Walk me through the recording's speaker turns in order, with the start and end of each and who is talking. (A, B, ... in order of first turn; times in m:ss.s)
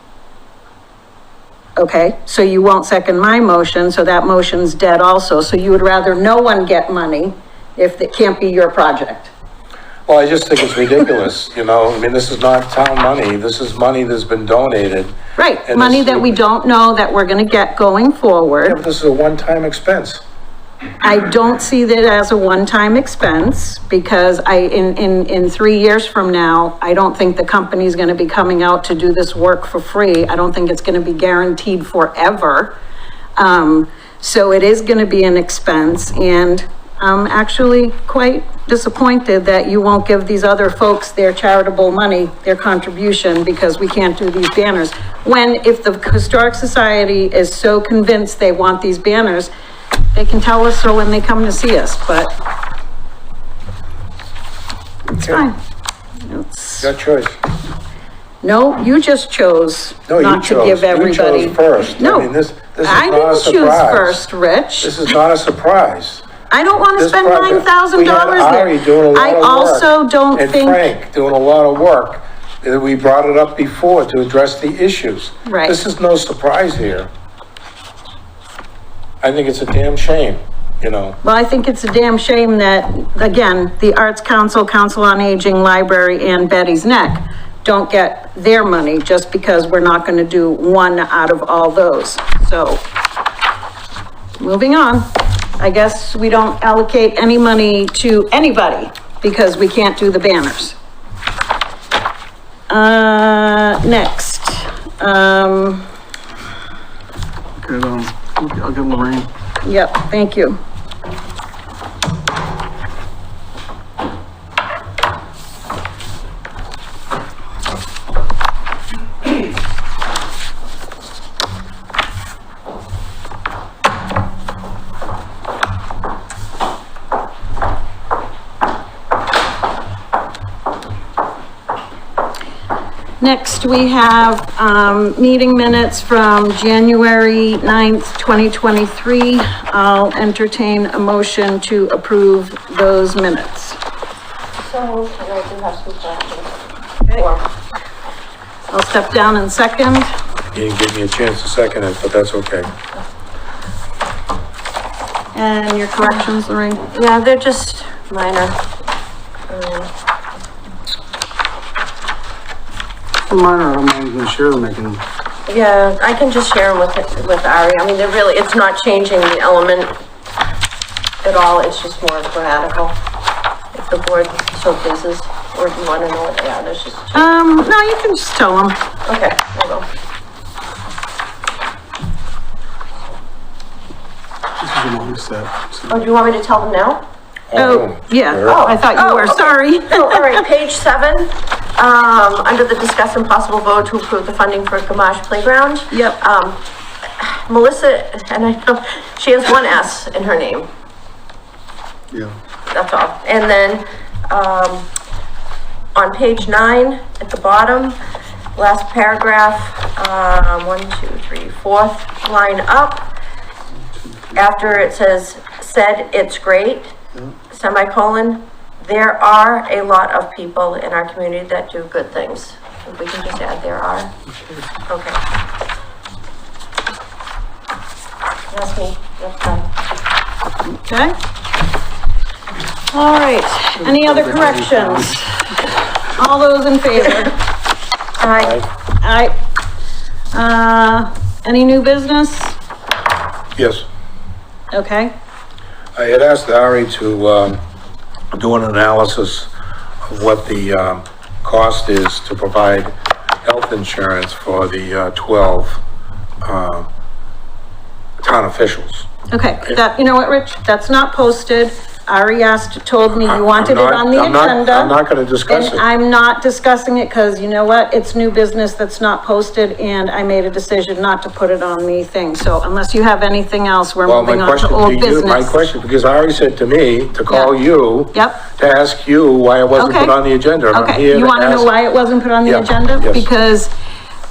0:01.8-0:09.3 A
0:10.1-0:16.3 B
0:15.4-0:18.8 A
0:18.6-0:20.2 B
0:21.0-0:32.8 A
0:33.4-0:49.5 A
0:50.1-0:52.3 A
0:55.1-0:55.6 A
0:55.2-0:55.4 B
0:56.2-0:56.9 A
0:56.8-0:57.4 B
0:58.4-1:02.3 A
1:00.1-1:04.2 B
1:02.8-1:05.0 A
1:04.8-1:06.3 B
1:06.5-1:10.8 A
1:07.0-1:17.1 B
1:15.5-1:15.8 A
1:19.2-1:21.2 B
1:21.2-1:32.8 A
1:34.4-1:40.8 A
1:42.7-1:45.9 A
1:47.6-1:49.3 C
1:49.6-1:50.6 A
2:13.2-2:23.8 A
2:24.6-2:27.5 D
2:28.7-2:30.1 A
2:30.5-2:32.7 B
2:35.3-2:36.8 A
2:36.9-2:38.6 D
2:39.5-2:39.9 D
2:43.3-2:45.0 C
2:45.5-2:50.0 D
2:51.2-2:53.0 D
2:53.7-2:57.3 D
2:57.1-2:58.8 A
2:59.1-2:59.9 D
3:04.6-3:06.0 C
3:05.9-3:07.0 D
3:07.5-3:08.6 B
3:07.6-3:10.4 A
3:08.4-3:16.6 D
3:15.9-3:16.2 A
3:17.2-3:20.7 D
3:22.1-3:22.4 C
3:22.7-3:24.9 D
3:26.0-3:28.0 D
3:28.6-3:33.1 D
3:34.0-3:34.4 C
3:34.3-3:37.0 D
3:37.5-3:44.1 D
3:44.9-3:45.2 D
3:48.5-3:49.7 D
3:50.6-3:51.2 A
3:52.9-3:57.4 A
3:53.8-3:55.2 C
3:58.2-3:58.6 D
3:58.4-3:58.7 B
3:59.0-3:59.3 A
4:00.3-4:02.6 A
4:03.6-4:03.8 B
4:04.7-4:05.1 A
4:06.0-4:07.6 B
4:08.3-4:09.5 B
4:10.0-4:15.8 B
4:16.4-4:16.9 B
4:18.2-4:19.1 B
4:19.3-4:25.0 A
4:23.2-4:25.8 B
4:25.5-4:35.6 A
4:34.0-4:41.7 B
4:38.1-4:38.4 A
4:39.8-4:40.2 A
4:40.7-4:43.7 A
4:42.4-4:43.3 B